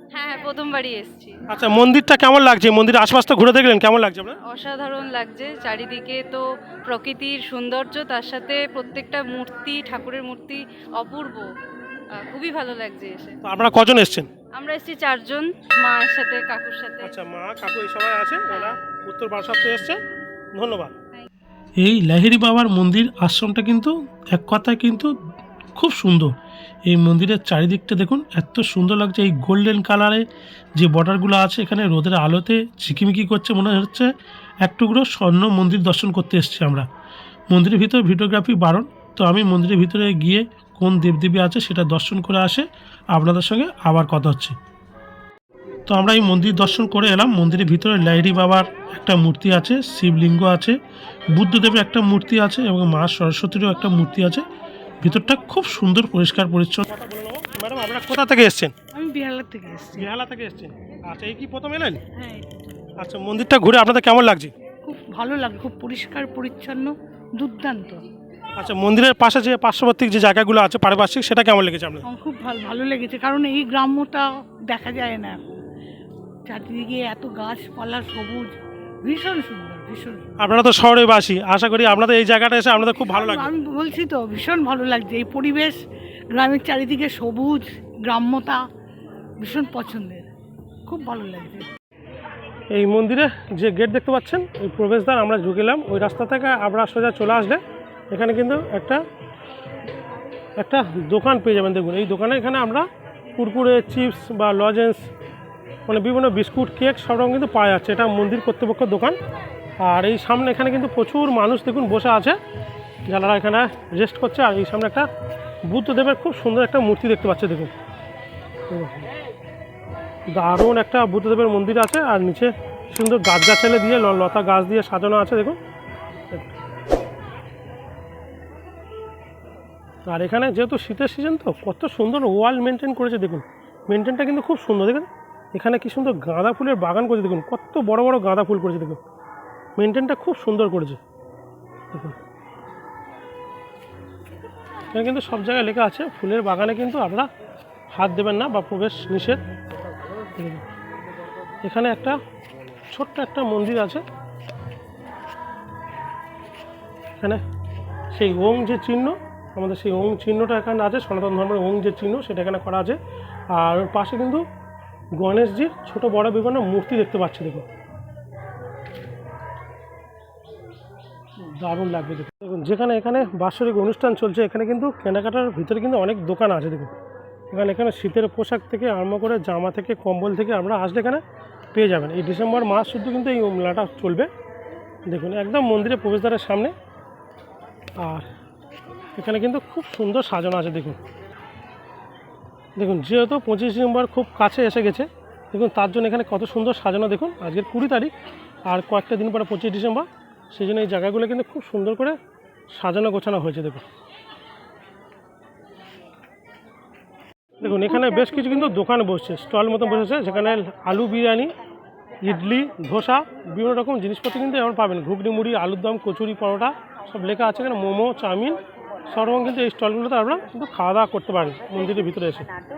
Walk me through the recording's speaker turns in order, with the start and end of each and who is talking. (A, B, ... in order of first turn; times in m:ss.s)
0:00.2-0:01.4 A
0:01.5-0:04.4 B
0:04.4-0:11.5 A
0:12.2-0:13.4 A
0:13.4-0:14.3 B
0:14.6-0:17.1 A
0:17.0-0:20.0 B
0:20.6-0:20.9 B
0:21.8-0:25.1 B
0:25.8-0:26.3 B
0:26.9-0:30.2 B
0:30.8-0:34.1 B
0:34.6-0:36.9 B
0:37.5-0:44.6 B
0:45.9-0:50.8 B
0:51.3-0:54.5 B
0:55.0-0:58.7 B
0:58.9-1:00.1 C
1:00.0-1:02.0 B
1:02.1-1:02.9 C
1:03.0-1:04.5 B
1:04.8-1:08.0 C
1:08.6-1:12.0 B
1:12.0-1:15.4 C
1:16.5-1:18.5 C
1:19.0-1:20.4 C
1:20.4-1:23.5 B
1:22.9-1:25.8 C
1:26.3-1:28.6 C
1:29.4-1:30.2 C
1:30.9-1:31.7 C
1:32.7-1:39.0 B
1:40.6-1:42.9 B
1:43.4-1:45.1 B
1:45.9-1:49.2 B
1:49.8-1:52.4 B
1:53.1-1:55.1 B
1:55.7-1:57.7 B
1:58.7-1:59.0 B
2:00.3-2:05.6 B
2:10.1-2:19.0 B
2:19.8-2:21.0 B
2:24.9-2:27.3 B
2:27.9-2:29.4 B
2:30.4-2:30.6 B
2:31.6-2:32.2 B
2:32.9-2:34.0 B
2:38.1-2:43.0 B
2:43.5-2:44.4 B
2:45.2-2:47.7 B
2:51.6-2:56.9 B
2:57.5-3:01.2 B
3:01.7-3:04.3 B
3:05.1-3:06.7 B
3:08.0-3:08.3 B
3:09.2-3:11.0 B
3:12.8-3:18.1 B
3:18.7-3:22.2 B
3:22.7-3:23.8 B
3:27.6-3:31.5 B
3:27.7-3:28.2 C
3:32.2-3:38.6 B
3:39.1-3:42.5 B